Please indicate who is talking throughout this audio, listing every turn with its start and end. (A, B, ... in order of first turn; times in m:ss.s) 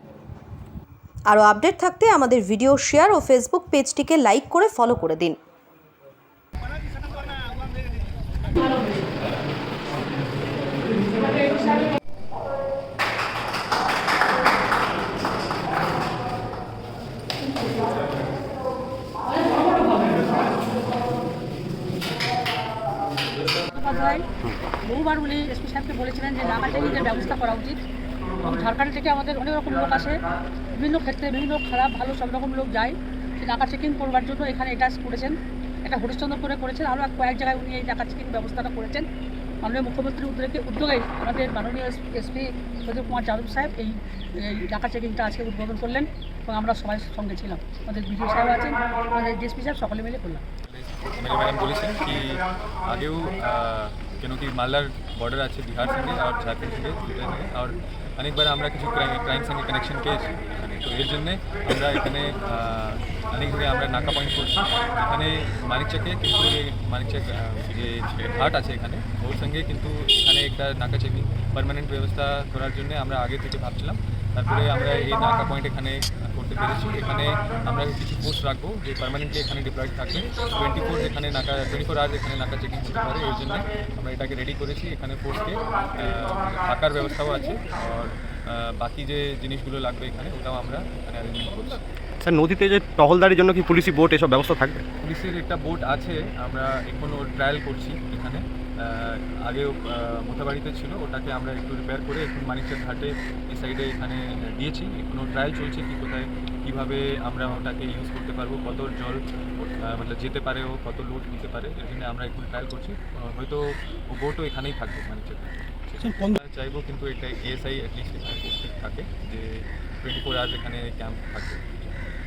0:01.3-0:05.4 A
0:23.7-0:24.2 B
0:24.8-0:27.8 B
0:28.4-0:30.2 B
0:30.8-0:39.1 B
0:39.6-0:50.4 B
0:50.6-1:31.8 C
1:26.9-1:27.6 B
1:32.2-1:34.8 D
1:35.0-2:01.9 C
1:56.0-1:56.4 D